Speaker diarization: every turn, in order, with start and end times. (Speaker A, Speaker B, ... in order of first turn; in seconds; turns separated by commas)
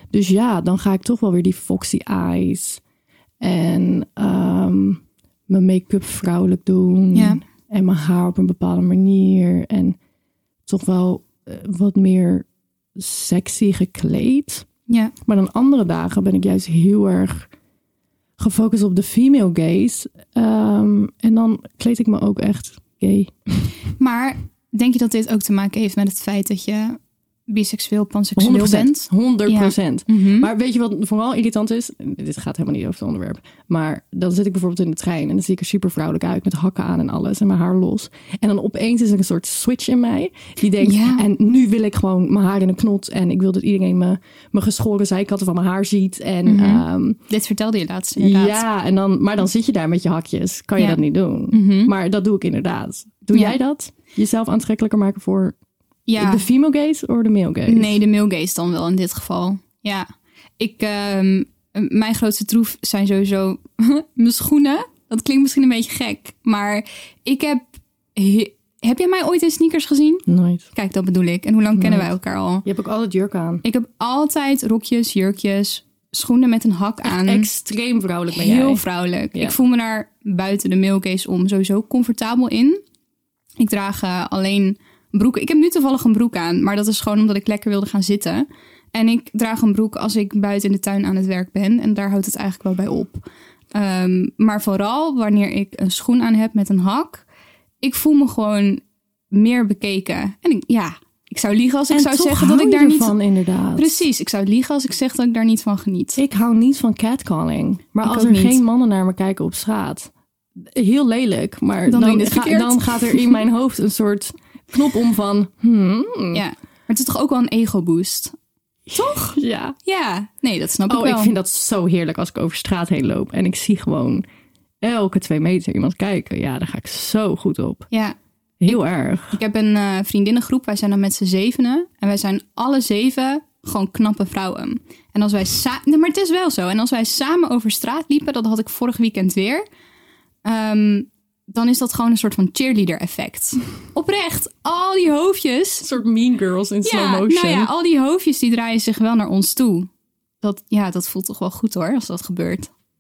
Speaker A: 0.1-2.8, Speaker A: 3.4-9.9, Speaker B: 7.1-7.4, Speaker A: 10.7-14.7, Speaker B: 14.9-15.1, Speaker A: 15.2-17.5, Speaker A: 18.4-23.7, Speaker B: 23.9-30.5, Speaker A: 28.4-47.2, Speaker B: 40.8-41.2, Speaker B: 46.4-48.7, Speaker A: 48.2-55.5, Speaker B: 50.8-51.9, Speaker B: 56.1-56.5, Speaker A: 56.2-58.0, Speaker B: 57.6-72.6, Speaker A: 70.3-70.7, Speaker A: 71.7-73.6, Speaker B: 73.6-77.5, Speaker A: 77.0-79.6, Speaker B: 78.3-82.8, Speaker B: 83.6-97.2, Speaker B: 97.8-103.2, Speaker A: 101.9-104.0, Speaker B: 103.8-106.2, Speaker A: 106.2-110.1, Speaker B: 108.0-108.6, Speaker A: 110.7-116.4, Speaker B: 111.8-113.4, Speaker B: 116.3-118.3, Speaker A: 118.9-119.8, Speaker B: 118.9-121.3, Speaker A: 120.9-124.2, Speaker A: 124.8-127.9, Speaker B: 127.9-139.6, Speaker A: 128.6-129.4, Speaker B: 140.4-145.9, Speaker A: 145.8-147.7, Speaker B: 146.8-149.9, Speaker B: 150.4-152.7